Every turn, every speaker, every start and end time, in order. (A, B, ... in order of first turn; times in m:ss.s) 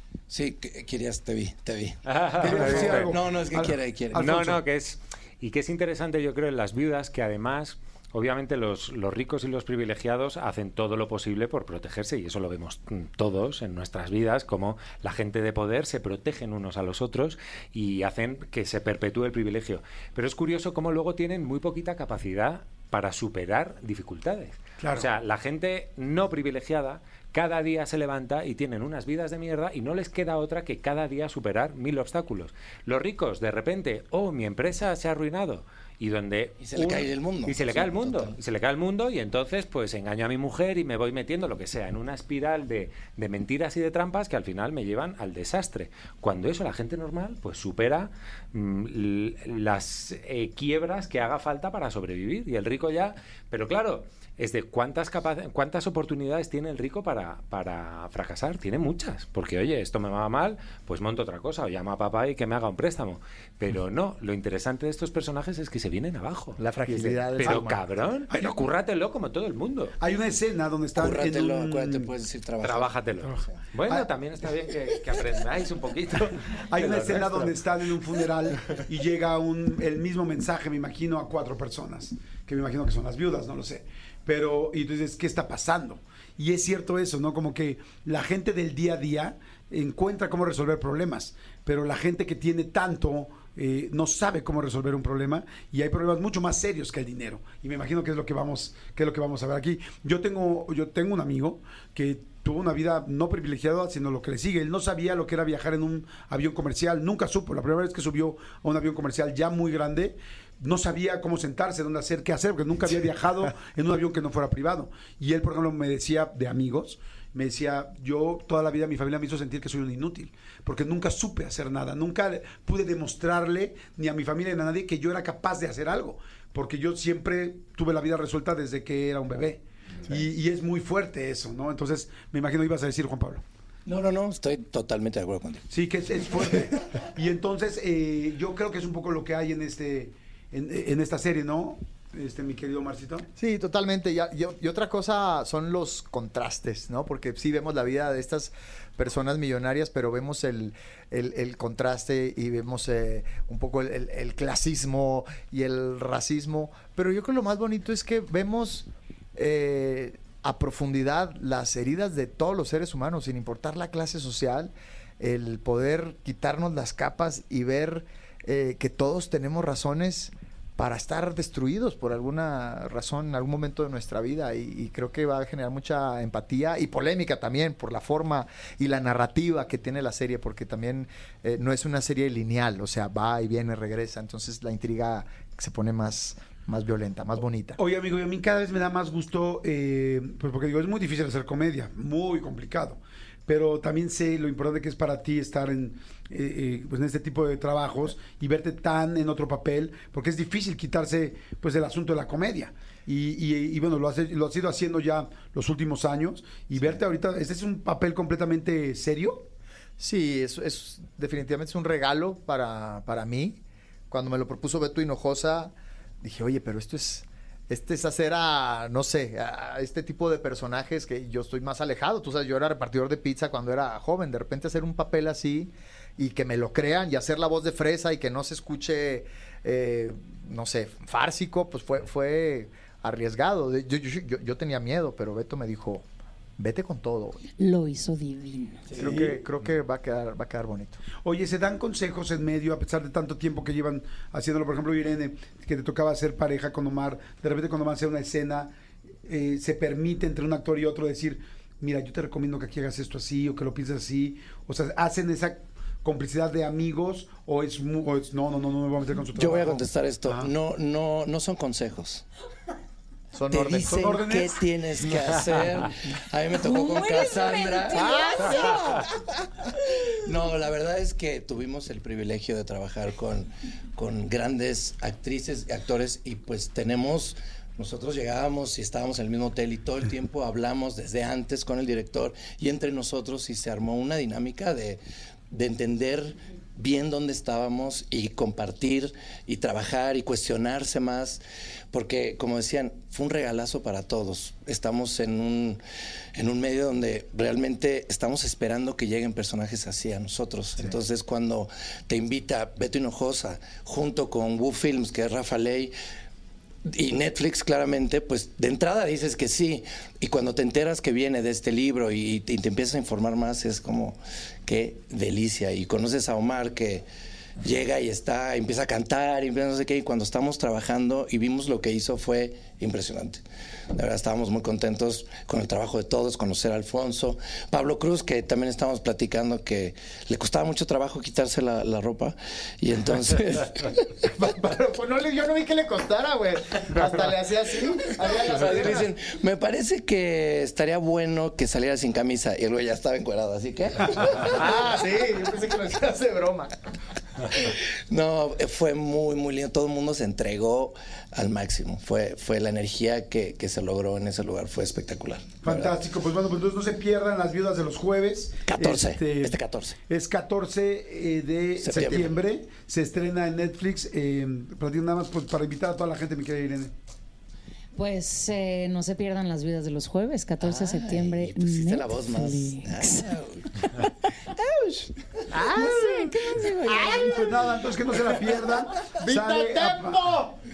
0:00.3-0:04.2 A
0:02.0-0:03.2 B
0:02.4-0:04.6 C
0:04.1-1:10.0 B
0:24.8-0:25.1 C
0:36.6-0:38.4 A
1:06.6-1:07.8 D
1:08.3-1:08.6 C
1:10.0-1:12.1 C
1:10.9-1:13.6 A
1:12.6-1:17.6 B
1:13.8-1:14.1 C
1:16.7-2:13.4 C
2:13.8-2:15.6 A
2:15.7-2:23.3 C
2:23.4-3:07.8 D
3:07.8-3:29.5 C
3:30.0-3:33.6 D
3:34.1-3:56.0 D
3:56.6-3:57.4 D
3:57.6-3:58.9 E
3:58.9-4:01.0 D
3:59.0-3:59.4 C
4:01.2-4:08.7 C
4:09.2-4:20.5 C
4:19.3-4:22.2 A
4:23.3-4:24.2 D
4:23.5-4:28.1 A
4:24.0-4:24.6 C
4:26.5-4:29.1 E
4:27.9-4:29.0 D
4:29.7-4:51.4 A
4:51.9-4:55.8 A
4:56.4-5:05.9 A
5:06.8-5:17.0 A
5:17.6-5:23.4 A
5:23.9-5:34.3 A
5:34.3-5:39.1 D
5:38.1-5:44.6 A
5:44.2-5:46.7 D
5:47.5-5:55.9 A
5:55.6-6:06.9 C
5:58.6-6:00.0 A
6:01.8-6:02.4 A
6:07.9-6:17.5 E
6:10.6-6:13.8 A
6:15.5-6:16.3 D
6:16.9-6:20.2 C
6:19.2-6:20.5 D